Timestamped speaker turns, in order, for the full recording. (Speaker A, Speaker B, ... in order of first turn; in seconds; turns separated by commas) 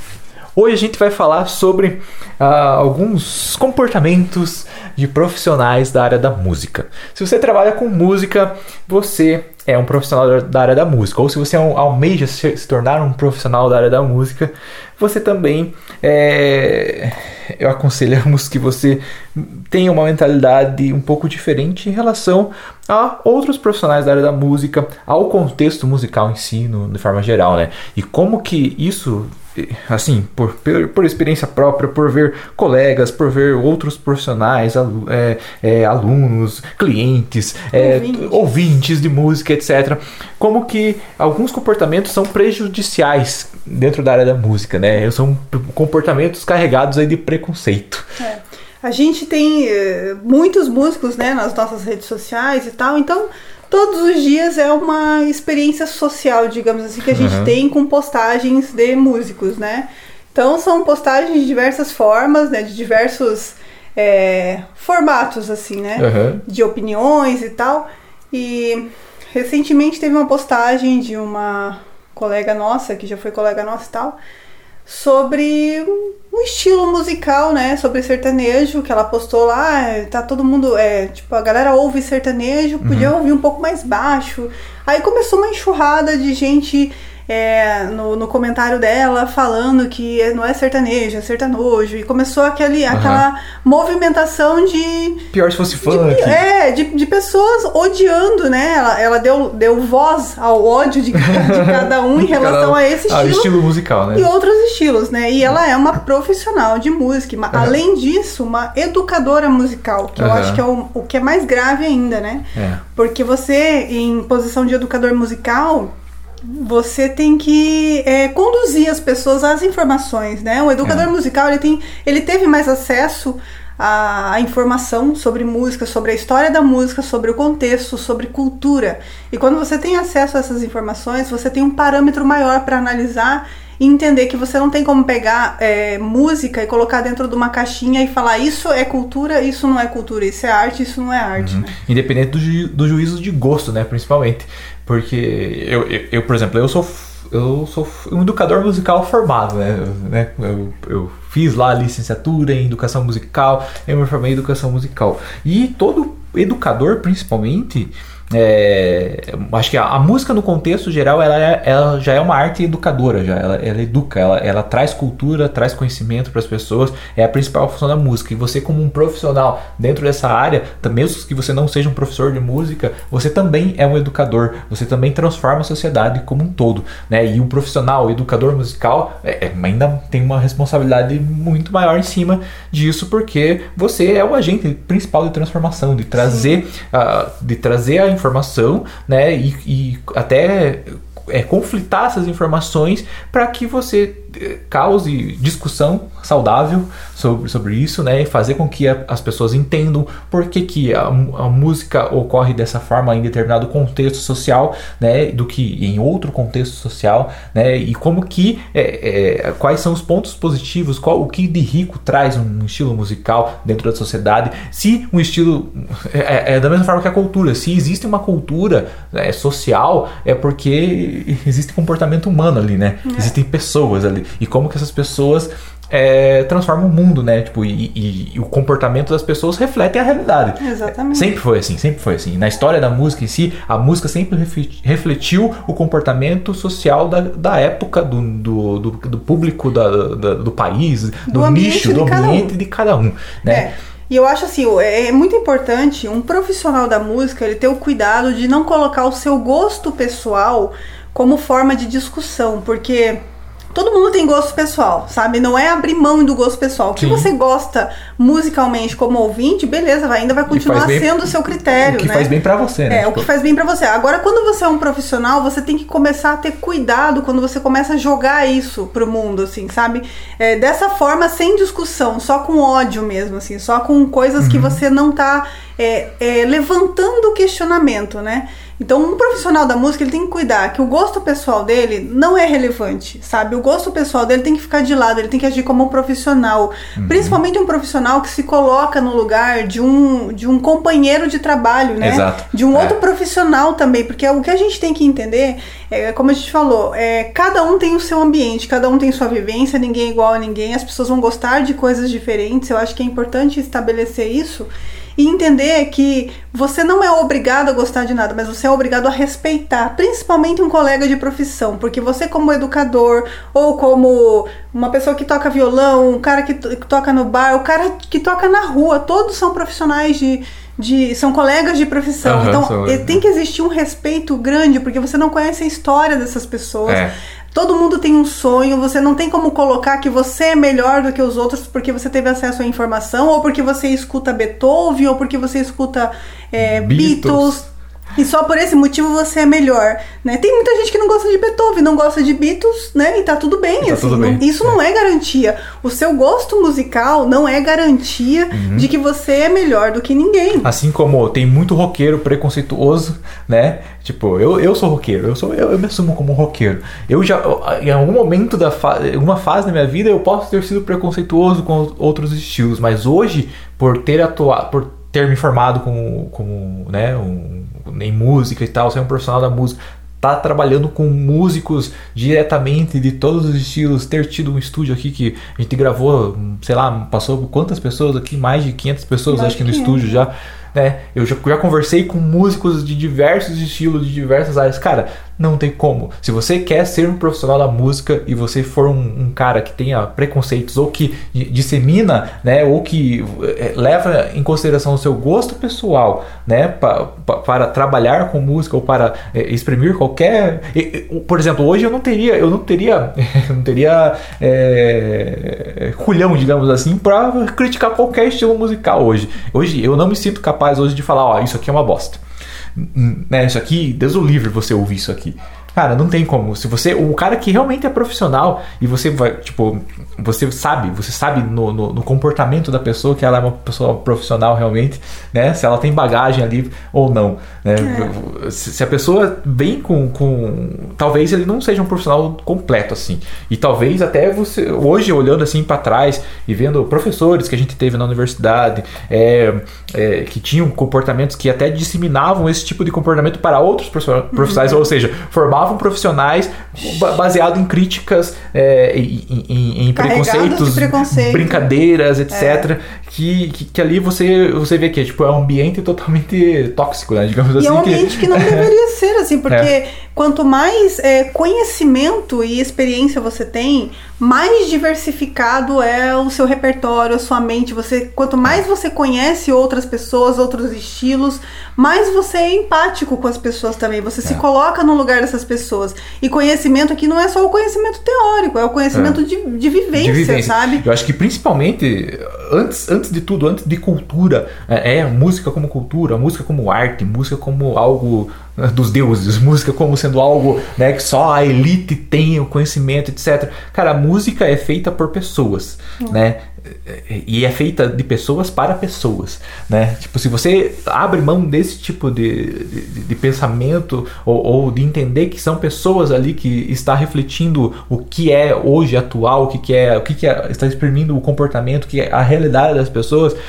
Speaker A: 0.6-48.1, Speaker B: 37.7-38.5, Speaker B: 48.2-74.2, Speaker A: 57.1-57.5, Speaker A: 66.0-66.4, Speaker B: 74.8-95.2, Speaker A: 82.8-83.1, Speaker A: 92.9-93.2, Speaker A: 95.3-96.4, Speaker B: 95.8-103.5, Speaker A: 101.2-104.3, Speaker B: 104.1-115.9, Speaker A: 107.5-107.8, Speaker A: 110.2-110.6, Speaker A: 112.5-112.8, Speaker B: 116.4-141.7, Speaker A: 120.8-121.1, Speaker A: 141.4-243.7, Speaker B: 186.2-186.5, Speaker B: 223.1-223.3, Speaker B: 230.6-231.3, Speaker B: 241.3-242.5, Speaker B: 243.4-253.2, Speaker B: 253.7-262.3, Speaker A: 257.0-257.3, Speaker A: 260.5-263.3, Speaker B: 262.9-337.6, Speaker A: 274.4-274.8, Speaker A: 286.9-287.4, Speaker A: 292.0-293.0, Speaker A: 322.2-323.2, Speaker A: 326.9-327.1, Speaker A: 336.6-337.6, Speaker B: 338.1-350.7, Speaker A: 343.8-344.8, Speaker A: 348.5-348.9, Speaker A: 350.6-412.2, Speaker B: 379.3-380.0, Speaker A: 412.8-458.7, Speaker B: 427.8-428.1, Speaker B: 444.3-444.9, Speaker B: 449.9-451.7, Speaker B: 452.3-452.6, Speaker B: 457.6-480.8, Speaker A: 478.9-479.2, Speaker A: 479.9-513.4